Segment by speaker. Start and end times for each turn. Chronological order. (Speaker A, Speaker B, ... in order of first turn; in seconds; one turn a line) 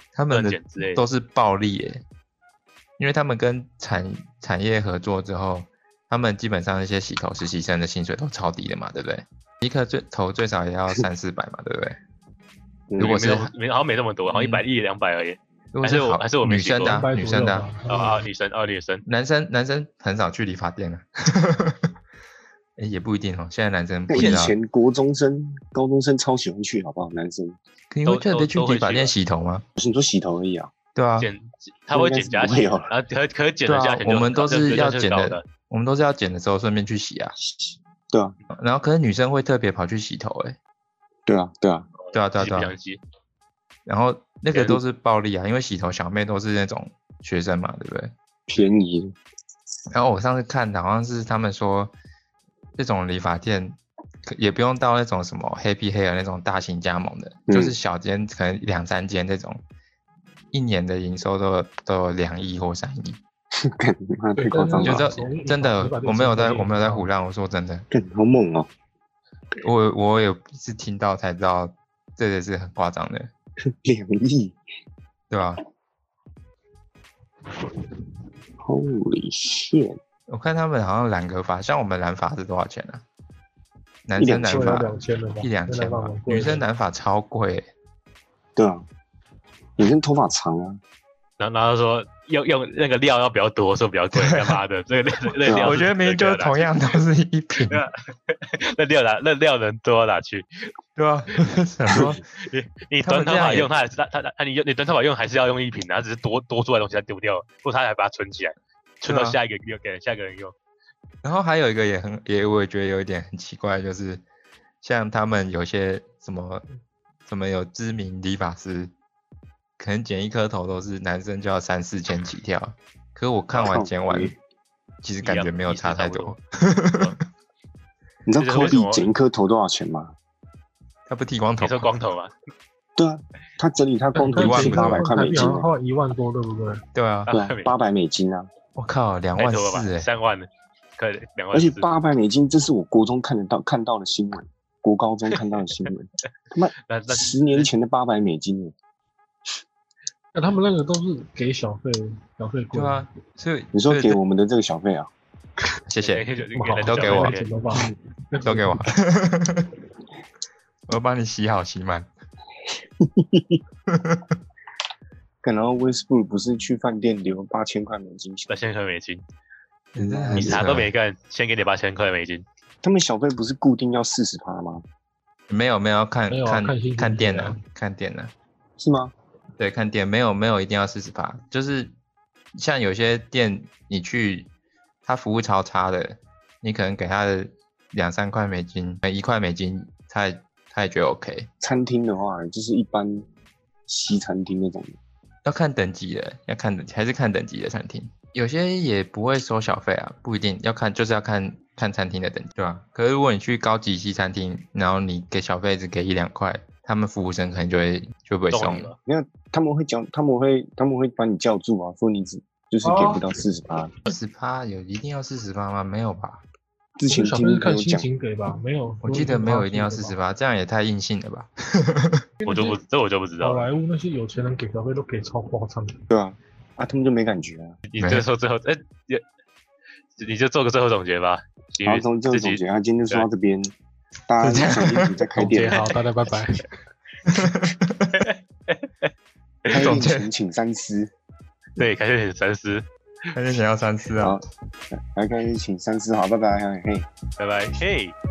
Speaker A: 0.1-2.0
Speaker B: 0.3-1.0
Speaker A: 3.0-12.0
Speaker C: 12.9-13.2
Speaker A: 13.0-13.5
Speaker B: 13.0-17.0
Speaker A: 14.3-14.6
Speaker A: 15.7-17.7
Speaker D: 16.9-18.2
Speaker B: 17.9-19.0
Speaker A: 19.1-21.9
Speaker A: 22.8-24.5
Speaker C: 24.1-27.6
Speaker B: 24.1-24.5
Speaker A: 27.9-29.6
Speaker B: 28.1-29.1
Speaker C: 29.8-30.7
Speaker A: 30.9-31.3
Speaker B: 31.2-35.4
Speaker C: 31.9-32.9
Speaker A: 33.6-37.3
Speaker C: 37.4-38.4
Speaker A: 38.5-40.6
Speaker C: 41.3-41.9
Speaker B: 42.0-43.0
Speaker A: 42.1-42.8
Speaker A: 43.9-48.1
Speaker C: 48.5-49.1
Speaker A: 49.9-51.9
Speaker A: 52.8-59.6
Speaker C: 57.5-57.7
Speaker A: 60.5-63.2
Speaker C: 63.6-65.1
Speaker D: 64.3-67.1
Speaker A: 64.8-67.9
Speaker C: 67.9-68.7
Speaker A: 69.6-73.3
Speaker C: 73.6-74.6
Speaker A: 75.3-75.6
Speaker C: 78.6-80.0
Speaker A: 80.3-83.0
Speaker A: 84.1-87.7
Speaker C: 84.2-84.8
Speaker D: 84.4-86.7
Speaker C: 88.6-88.8
Speaker C: 89.8-90.8
Speaker B: 91.4-96.8
Speaker A: 94.1-94.6
Speaker A: 95.4-97.8
Speaker C: 95.5-95.8
Speaker B: 97.7-100.5
Speaker A: 101.0-102.2
Speaker B: 102.4-110.5
Speaker A: 103.0-103.7
Speaker A: 109.1-109.4
Speaker A: 111.2-114.2
Speaker A: 114.8-116.6
Speaker A: 117.3-118.9
Speaker A: 119.8-124.3
Speaker C: 123.5-124.4
Speaker A: 125.0-127.2
Speaker B: 125.2-126.4
Speaker C: 128.3-130.1
Speaker B: 128.4-129.1
Speaker A: 131.1-131.9
Speaker B: 131.6-132.3
Speaker C: 133.0-135.7
Speaker D: 134.2-136.8
Speaker A: 134.3-135.1
Speaker A: 136.9-137.3
Speaker B: 137.3-137.7
Speaker C: 137.3-138.5
Speaker A: 138.8-140.1
Speaker B: 139.4-141.9
Speaker C: 141.5-148.7
Speaker B: 146.9-147.7
Speaker D: 150.3-153.1
Speaker A: 152.7-154.2
Speaker C: 153.7-155.1
Speaker A: 155.9-156.2
Speaker B: 156.0-157.5
Speaker D: 156.5-158.8
Speaker A: 156.8-157.3
Speaker A: 158.4-159.7
Speaker A: 160.9-162.1
Speaker C: 163.0-163.6
Speaker A: 163.9-164.4
Speaker C: 165.4-168.6
Speaker B: 168.5-169.2
Speaker A: 169.9-170.9
Speaker C: 170.0-170.7
Speaker B: 170.3-172.4
Speaker C: 172.8-174.8
Speaker A: 175.5-178.3
Speaker D: 176.3-177.6
Speaker C: 178.8-179.1
Speaker A: 179.6-181.9
Speaker A: 182.5-184.5
Speaker A: 185.0-191.5
Speaker C: 191.6-193.2
Speaker C: 193.9-195.0
Speaker A: 195.4-208.9
Speaker B: 208.5-209.0
Speaker C: 209.0-213.9
Speaker D: 212.8-213.4
Speaker A: 214.0-216.4
Speaker C: 217.0-218.1
Speaker D: 217.1-220.2
Speaker A: 219.0-222.2
Speaker D: 222.4-222.8
Speaker B: 222.5-223.7
Speaker D: 223.4-226.0
Speaker C: 226.1-227.8
Speaker B: 227.9-229.2
Speaker A: 228.0-228.2
Speaker B: 230.2-233.3
Speaker C: 231.8-233.7
Speaker C: 234.3-235.8
Speaker A: 234.4-235.2
Speaker D: 235.3-236.7
Speaker A: 237.2-238.3
Speaker B: 238.1-239.1
Speaker B: 239.7-240.0
Speaker C: 239.7-241.1
Speaker A: 239.7-240.3
Speaker B: 241.8-242.8
Speaker A: 243.3-244.4
Speaker C: 244.2-247.1
Speaker B: 247.4-248.2